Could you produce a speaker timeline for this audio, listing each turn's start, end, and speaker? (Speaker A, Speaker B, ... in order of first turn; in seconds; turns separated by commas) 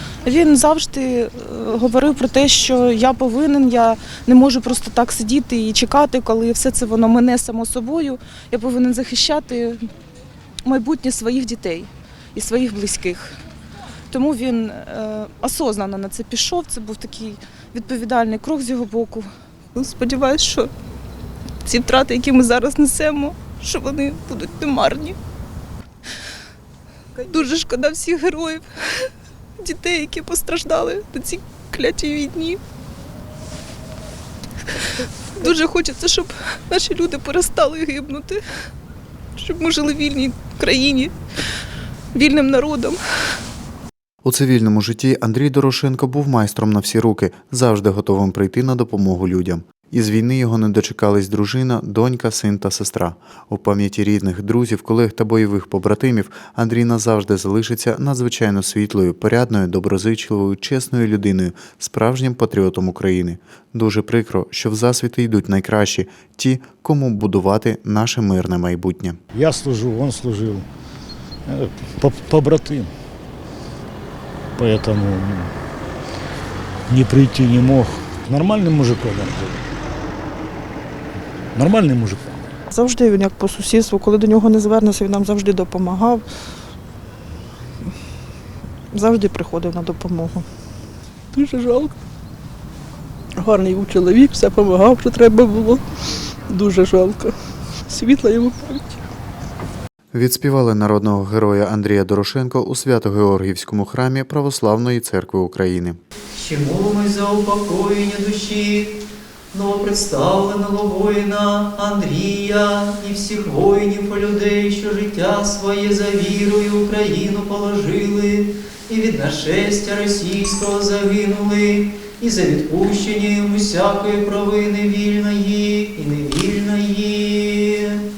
Speaker A: 0.2-9.9, Speaker A: 10.7-13.3, Speaker A: 14.1-20.7, Speaker A: 21.6-25.1, Speaker A: 27.2-29.1, Speaker A: 29.6-32.6, Speaker A: 35.4-38.4, Speaker A: 39.4-41.1, Speaker A: 42.1-43.0, Speaker B: 44.2-69.2, Speaker C: 69.3-70.7, Speaker C: 71.5-72.9, Speaker C: 74.6-75.5, Speaker C: 76.9-79.6, Speaker C: 81.5-82.4, Speaker D: 82.7-86.2, Speaker D: 88.9-90.5, Speaker E: 91.3-92.0, Speaker E: 93.4-95.8, Speaker E: 96.5-99.0, Speaker B: 100.1-106.0, Speaker F: 106.3-109.0, Speaker F: 109.5-128.0